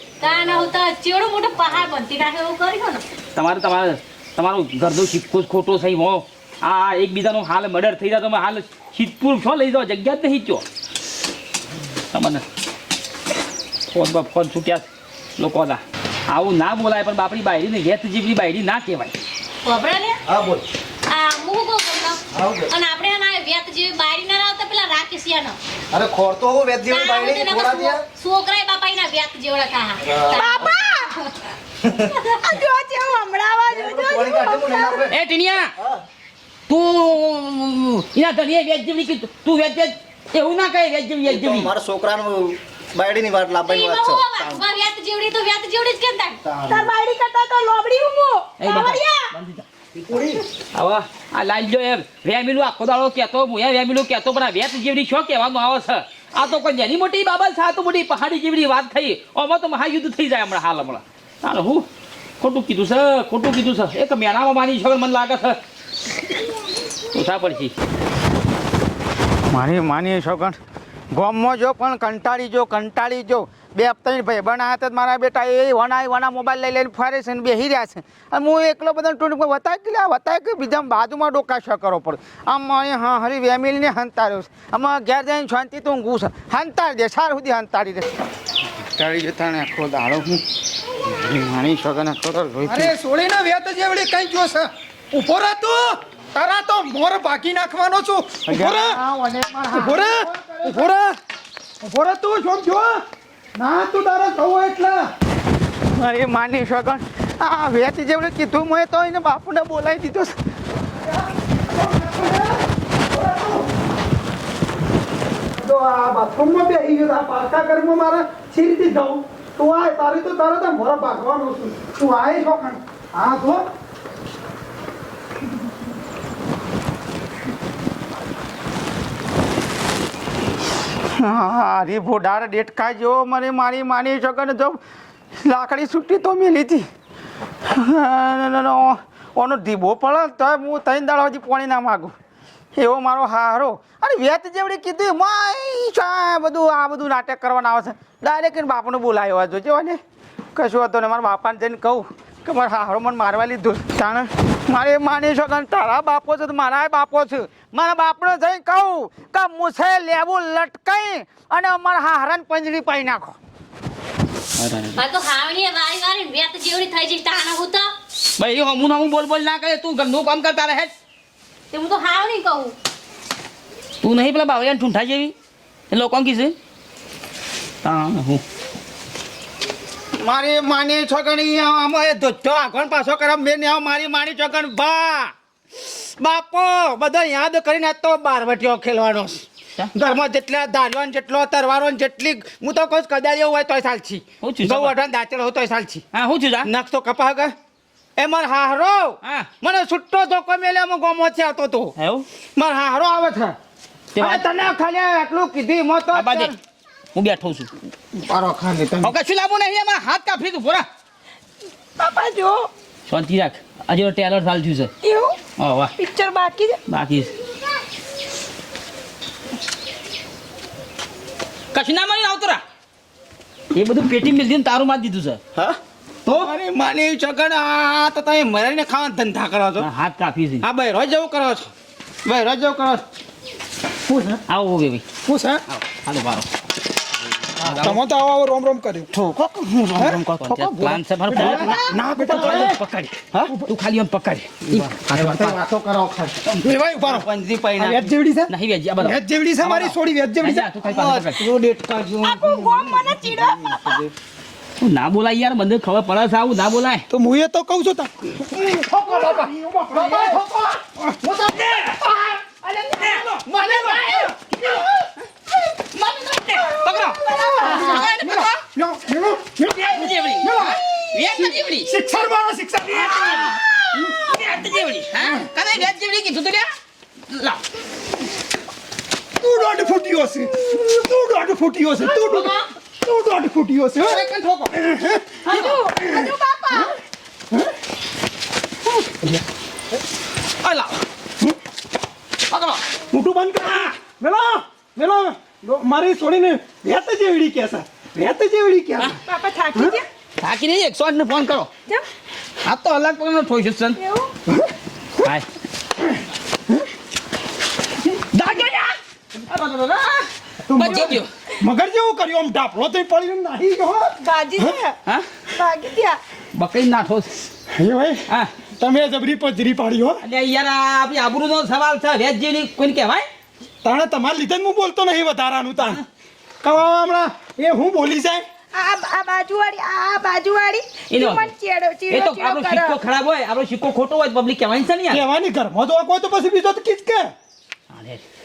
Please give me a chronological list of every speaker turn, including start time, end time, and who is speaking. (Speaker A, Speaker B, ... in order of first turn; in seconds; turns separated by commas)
Speaker A: 0.2-3.0, Speaker B: 3.4-10.7, Speaker B: 12.1-12.4, Speaker B: 13.9-14.9, Speaker B: 15.4-19.2, Speaker A: 19.6-20.2, Speaker C: 20.2-20.6, Speaker A: 21.1-25.6, Speaker C: 22.3-22.7, Speaker C: 25.9-28.0, Speaker A: 26.9-31.3, Speaker C: 30.0-30.4, Speaker D: 30.3-31.1, Speaker C: 31.8-32.1, Speaker A: 32.1-32.6, Speaker D: 32.4-35.0, Speaker C: 33.7-35.1, Speaker B: 35.1-35.7, Speaker B: 36.7-41.7, Speaker C: 41.2-44.7, Speaker A: 43.6-46.4, Speaker C: 46.5-46.9, Speaker D: 46.7-49.3, Speaker B: 48.6-49.7, Speaker C: 50.1-50.4, Speaker B: 50.7-61.9, Speaker B: 62.4-65.6, Speaker B: 67.1-67.7, Speaker E: 69.5-70.6, Speaker E: 71.1-88.1, Speaker E: 88.9-90.4, Speaker E: 91.0-92.9, Speaker F: 92.7-99.0, Speaker E: 98.5-100.9, Speaker F: 99.7-101.2, Speaker F: 101.8-103.0, Speaker F: 103.6-105.1, Speaker E: 105.9-110.3, Speaker F: 111.1-112.6, Speaker F: 113.1-113.7, Speaker F: 115.6-123.6, Speaker E: 131.1-134.8, Speaker E: 135.4-136.9, Speaker E: 137.6-142.2, Speaker E: 142.8-150.0, Speaker E: 150.5-163.4, Speaker B: 164.6-165.0, Speaker A: 164.9-167.9, Speaker B: 168.4-170.9, Speaker A: 171.7-172.8, Speaker B: 174.0-175.3, Speaker B: 175.9-176.6, Speaker B: 177.8-178.4, Speaker E: 180.2-196.0, Speaker B: 194.4-194.9, Speaker B: 196.1-196.7, Speaker E: 196.6-197.5, Speaker E: 198.2-201.9, Speaker B: 199.2-199.5, Speaker B: 202.0-202.3, Speaker E: 202.6-203.6, Speaker B: 204.2-204.5, Speaker E: 204.2-206.6, Speaker B: 206.1-206.5, Speaker B: 207.2-207.7, Speaker E: 208.1-209.2, Speaker B: 209.0-210.9, Speaker D: 212.0-212.7, Speaker B: 213.1-214.9, Speaker D: 215.0-215.4, Speaker B: 215.6-215.9, Speaker D: 216.0-216.8, Speaker B: 216.9-217.3, Speaker B: 221.7-222.6, Speaker B: 223.7-225.4, Speaker E: 225.6-229.9, Speaker B: 229.8-230.7, Speaker E: 230.6-231.7, Speaker E: 232.2-233.0, Speaker F: 234.1-234.4, Speaker B: 234.5-235.0, Speaker F: 235.2-235.6, Speaker B: 235.7-236.5, Speaker B: 237.6-238.0, Speaker F: 237.7-239.1, Speaker E: 239.1-242.8, Speaker B: 240.4-245.6, Speaker F: 241.3-242.8, Speaker F: 243.4-243.7, Speaker E: 244.7-248.0, Speaker F: 246.7-247.3, Speaker F: 247.8-250.7, Speaker B: 248.5-251.4, Speaker E: 250.8-254.1, Speaker D: 252.2-254.0, Speaker B: 254.8-257.0, Speaker F: 257.1-258.3, Speaker E: 258.5-262.0, Speaker F: 259.0-260.4, Speaker F: 262.9-264.4, Speaker E: 263.4-264.4, Speaker B: 265.9-268.5, Speaker D: 267.3-268.1, Speaker F: 267.4-274.2, Speaker B: 269.6-271.9, Speaker B: 272.9-276.7, Speaker F: 275.2-275.5, Speaker B: 277.3-277.6, Speaker F: 279.4-286.9, Speaker D: 282.2-282.6, Speaker D: 285.4-286.9, Speaker B: 290.6-291.0, Speaker B: 292.5-292.8, Speaker F: 293.1-299.2, Speaker D: 299.2-300.1, Speaker F: 299.8-300.0, Speaker B: 300.4-301.7, Speaker B: 302.6-304.0, Speaker D: 304.0-304.3, Speaker D: 308.4-308.9, Speaker B: 309.5-311.3, Speaker F: 310.7-314.8, Speaker D: 314.2-315.0, Speaker D: 315.5-316.2, Speaker B: 316.5-317.4, Speaker F: 317.7-318.2, Speaker F: 318.8-320.2, Speaker B: 320.2-323.3, Speaker F: 323.8-326.1, Speaker F: 326.6-328.4, Speaker D: 328.7-333.0, Speaker B: 331.1-331.5, Speaker B: 332.1-335.2, Speaker F: 335.1-337.3, Speaker B: 337.9-338.2